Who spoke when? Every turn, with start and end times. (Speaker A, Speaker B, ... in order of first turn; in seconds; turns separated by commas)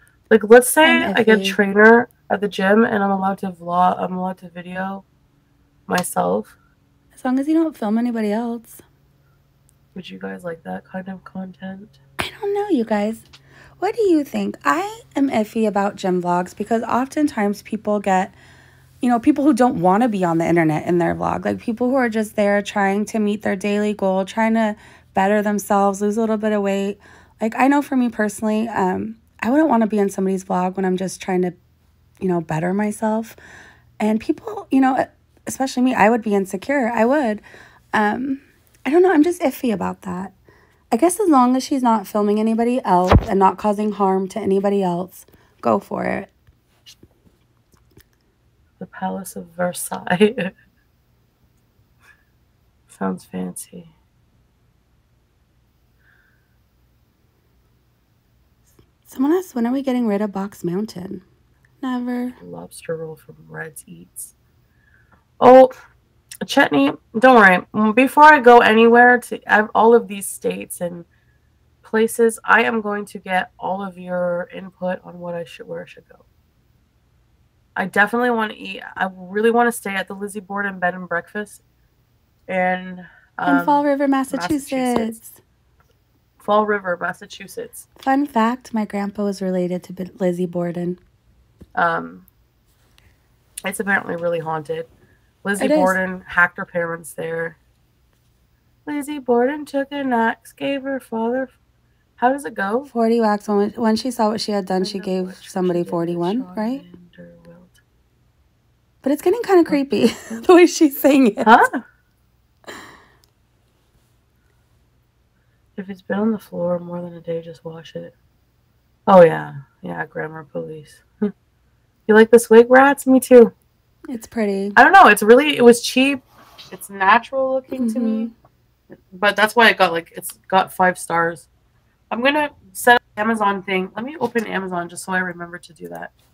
Speaker A: 0.3-5.1, Speaker B: 0.8-1.6, Speaker A: 5.9-6.6, Speaker B: 7.1-8.8, Speaker A: 9.9-12.0, Speaker B: 12.2-13.3, Speaker B: 13.8-18.4, Speaker B: 19.0-31.6, Speaker B: 32.2-33.4, Speaker B: 34.0-40.3, Speaker B: 40.9-46.3, Speaker A: 48.8-50.5, Speaker A: 52.9-53.9, Speaker B: 59.1-61.2, Speaker B: 61.8-62.4, Speaker A: 62.4-64.3, Speaker A: 65.4-65.7, Speaker A: 66.4-71.1, Speaker A: 71.8-76.2, Speaker A: 77.8-81.6, Speaker A: 82.5-85.2, Speaker B: 83.5-85.4, Speaker A: 86.4-87.8, Speaker B: 88.0-91.0, Speaker A: 91.7-92.3, Speaker A: 93.6-94.9, Speaker A: 95.4-97.6, Speaker B: 95.6-96.0, Speaker A: 98.9-101.5, Speaker A: 102.2-102.9, Speaker B: 102.9-106.8, Speaker A: 104.8-107.8, Speaker B: 109.0-111.5, Speaker A: 109.7-110.4, Speaker A: 111.4-111.8, Speaker A: 115.8-118.1, Speaker A: 119.1-121.3, Speaker A: 122.1-123.5, Speaker B: 124.1-124.8, Speaker A: 124.8-128.3, Speaker B: 127.7-128.3, Speaker A: 129.1-131.5, Speaker A: 132.1-136.1